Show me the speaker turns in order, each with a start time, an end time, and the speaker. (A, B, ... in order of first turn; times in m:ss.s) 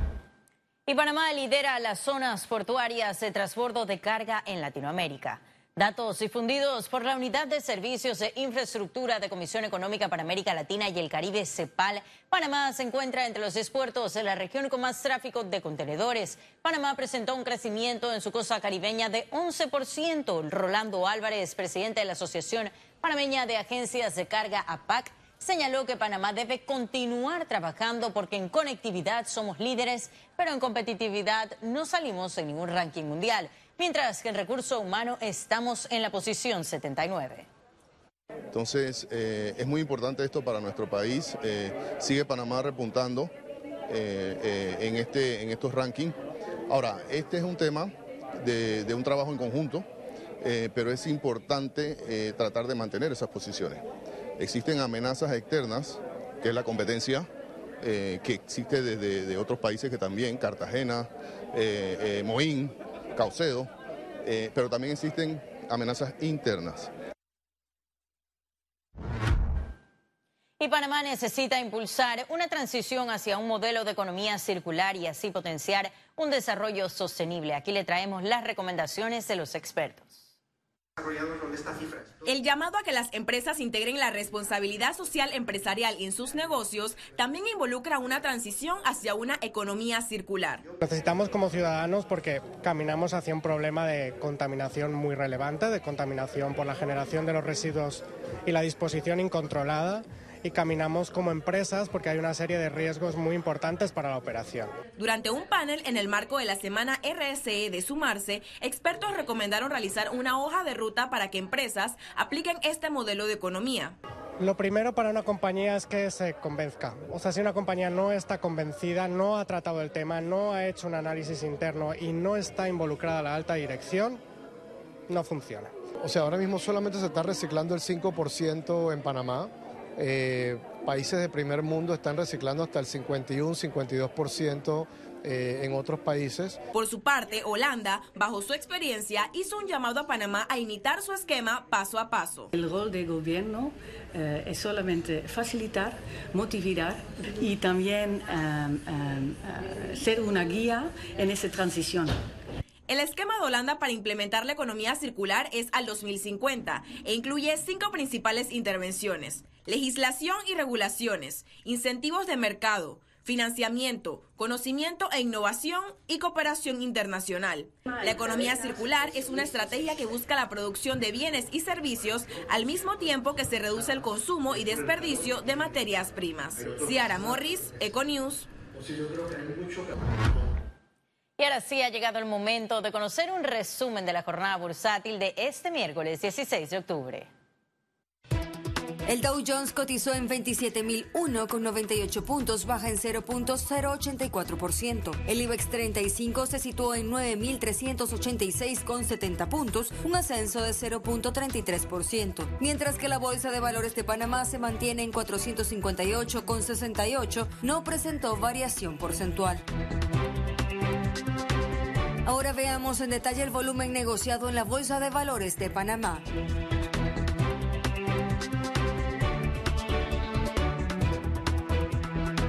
0:00.9-0:37.5 A
0:38.5-0:43.3 B
0:43.9-0:46.2 B
0:46.7-0:49.9 B
0:50.4-0:53.8 B
0:54.4-0:57.3 B
0:57.8-1:03.7 B
1:04.2-1:06.9 B
1:10.6-1:20.2 A
1:22.2-1:30.7 C
1:30.7-1:44.7 D
1:45.0-1:54.0 C
1:54.4-2:04.2 D
2:05.1-2:05.7 D
2:06.0-2:16.6 E
2:16.7-2:22.5 C
2:22.5-2:32.2 F
2:32.9-2:58.5 C
3:01.4-3:07.3 A
3:09.1-3:29.6 G
3:32.3-3:36.2 G